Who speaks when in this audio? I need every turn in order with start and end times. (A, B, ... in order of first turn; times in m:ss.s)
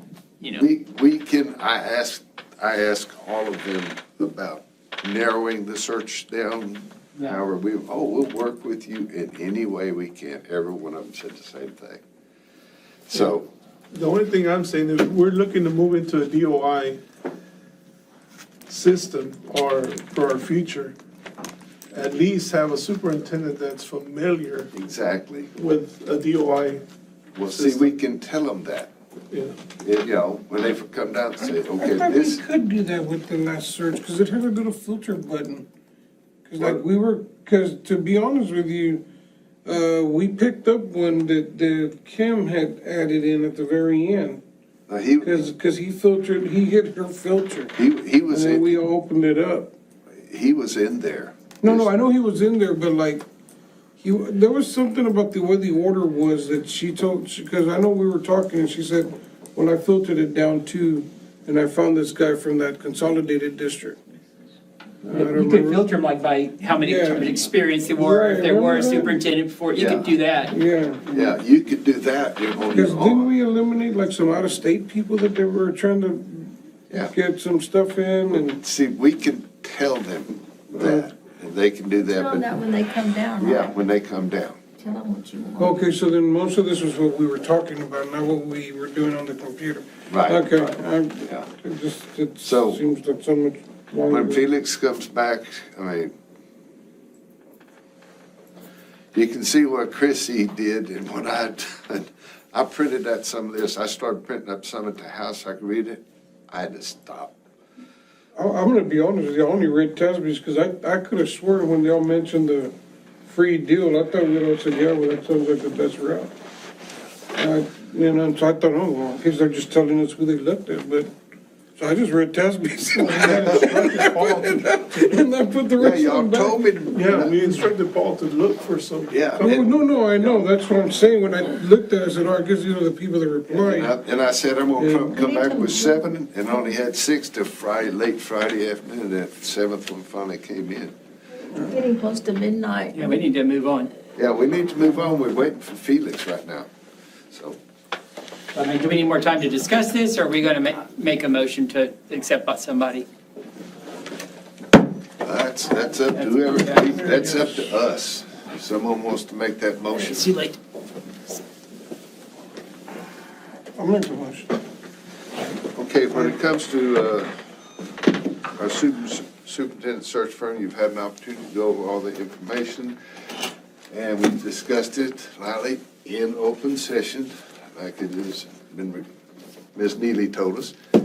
0:00.5-0:12.0 A
0:13.1-0:13.5 A
0:13.9-0:17.0 B
0:18.7-0:21.0 B
0:21.9-0:24.7 B
0:24.7-0:25.5 A
0:25.5-0:26.8 B
0:27.3-0:28.9 A
0:27.5-0:27.9 B
0:29.3-0:29.6 B
0:29.8-0:32.4 A
0:31.8-0:35.7 C
0:36.4-0:39.0 C
0:39.6-0:44.4 C
0:44.9-0:45.5 A
0:45.2-0:47.7 C
0:47.8-0:48.8 A
0:48.3-0:49.7 C
0:50.1-0:51.9 A
0:51.6-0:53.2 C
0:54.0-1:04.0 C
1:05.0-1:05.9 C
1:05.1-1:10.5 D
1:06.8-1:09.2 C
1:09.7-1:10.1 A
1:10.5-1:11.0 C
1:11.1-1:13.3 A
1:12.7-1:16.6 C
1:17.1-1:18.6 C
1:18.3-1:22.6 A
1:20.8-1:21.1 C
1:22.1-1:23.7 E
1:23.4-1:24.6 A
1:24.8-1:25.7 E
1:25.6-1:34.4 C
1:30.1-1:31.5 A
1:32.4-1:32.8 A
1:34.1-1:36.1 A
1:39.1-1:47.3 A
1:48.4-1:52.7 C
1:53.2-1:56.3 C
1:57.3-2:01.1 C
2:01.8-2:06.7 C
2:03.1-2:05.2 B
2:03.2-2:04.0 A
2:05.8-2:07.3 A
2:06.9-2:09.5 B
2:09.1-2:10.4 A
2:09.4-2:14.0 C
2:13.5-2:20.9 A
2:14.8-2:15.2 C
2:15.2-2:16.0 E
2:21.7-2:23.0 E
2:22.9-2:23.9 D
2:24.2-2:26.7 A
2:27.3-2:27.6 A
2:28.5-2:33.0 D
2:35.2-2:40.3 A
2:36.1-2:37.2 D
2:39.9-2:40.6 D
2:43.8-2:44.5 C
2:45.7-2:47.3 A
2:48.5-2:53.0 A
2:53.9-2:59.0 A
2:59.7-3:00.8 A